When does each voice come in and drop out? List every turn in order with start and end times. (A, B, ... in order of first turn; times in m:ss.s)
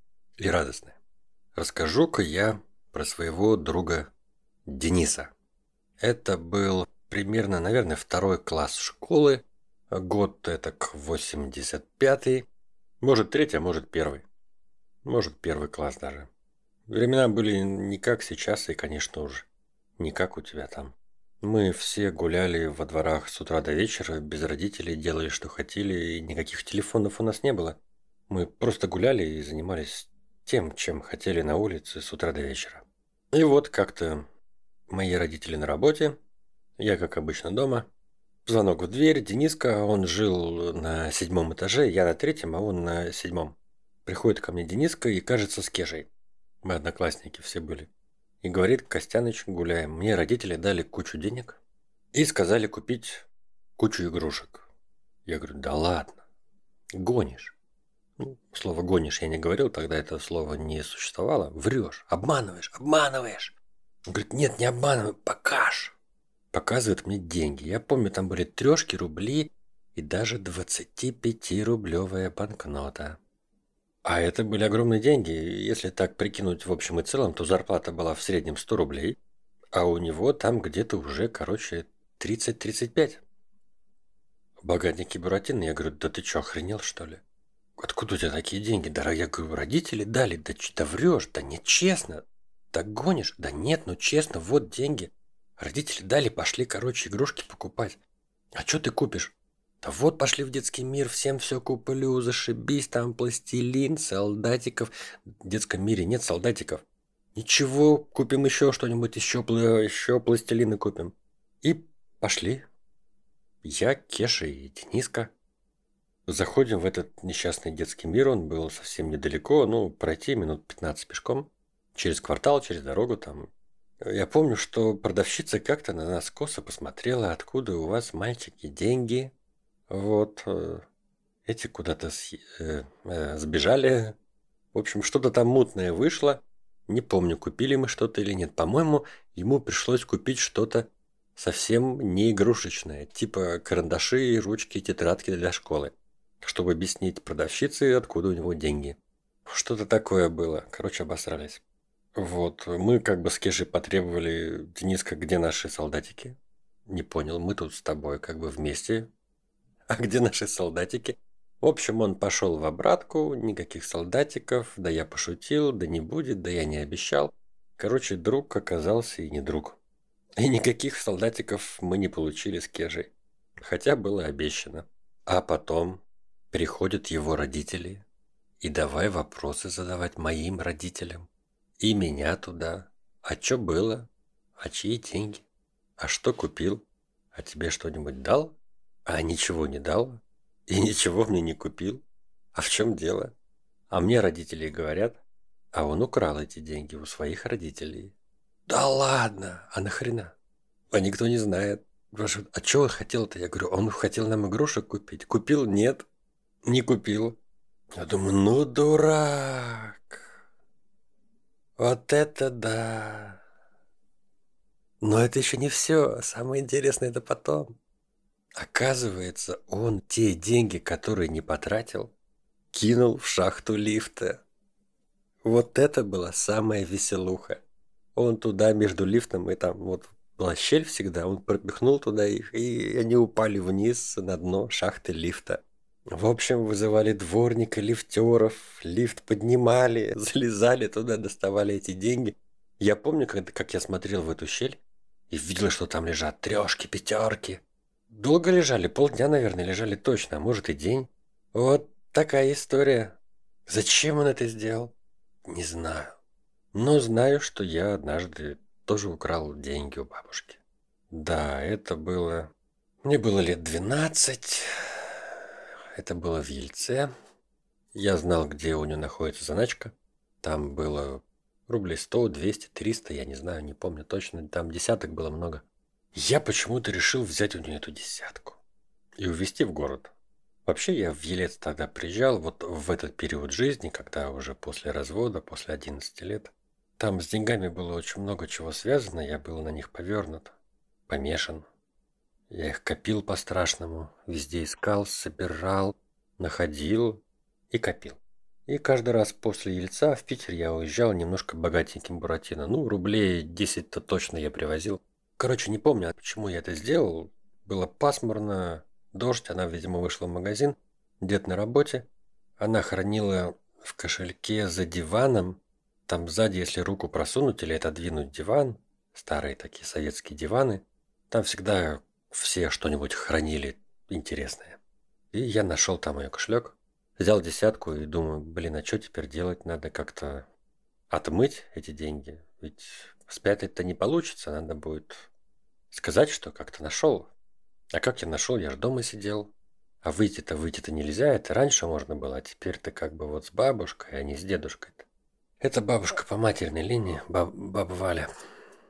0:00.4-0:01.0 A
0:01.6-0:04.1 A
0:04.7-0:05.3 A
0:06.0-0:12.5 A
0:13.0-0:14.2 A
0:15.0-0:16.3 A
0:16.9-0:19.5 A
0:20.0-0:34.3 A
0:34.9-0:36.2 A
0:36.8-0:37.9 A
0:38.5-0:46.1 A
0:46.6-0:47.9 A
0:48.4-0:51.6 A
0:52.1-0:54.7 A
0:55.3-0:56.2 A
0:57.0-0:57.6 A
0:58.2-1:03.6 A
1:04.1-1:06.0 A
1:06.5-1:13.2 A
1:14.0-1:19.2 A
1:19.7-1:23.2 A
1:24.6-1:27.2 A
1:27.8-1:38.0 A
1:38.6-1:44.9 A
1:45.4-1:46.8 A
1:47.4-1:52.7 A
1:53.6-1:55.3 A
1:56.3-2:03.5 A
2:04.0-2:09.3 A
2:09.9-2:10.8 A
2:11.5-2:14.2 A
2:14.7-2:31.6 A
2:32.2-2:39.1 A
2:39.9-2:49.8 A
2:50.4-2:53.1 A
2:53.6-2:58.0 A
2:58.6-3:01.3 A
3:01.8-3:05.4 A
3:06.0-3:06.8 A
3:07.3-3:12.0 A
3:12.5-3:13.3 A
3:13.9-3:15.2 A
3:15.7-3:18.1 A
3:18.7-3:20.3 A
3:20.9-3:26.1 A
3:26.6-3:27.4 A
3:28.0-3:30.3 A
3:31.8-3:33.4 A
3:35.0-3:37.7 A
3:38.6-3:42.1 A
3:42.7-3:44.4 A
3:45.4-3:47.6 A
3:48.2-3:55.6 A
3:56.2-4:14.9 A
4:15.5-4:16.2 A
4:16.7-4:22.5 A
4:23.0-4:25.4 A
4:26.0-4:27.1 A
4:27.9-4:38.6 A
4:39.2-4:40.1 A
4:40.7-4:50.6 A
4:51.1-4:51.7 A
4:52.5-5:12.1 A
5:12.6-5:24.8 A
5:25.3-5:30.5 A
5:31.1-5:35.3 A
5:35.9-5:37.3 A
5:37.9-5:39.5 A
5:40.0-5:45.1 A
5:45.6-5:48.3 A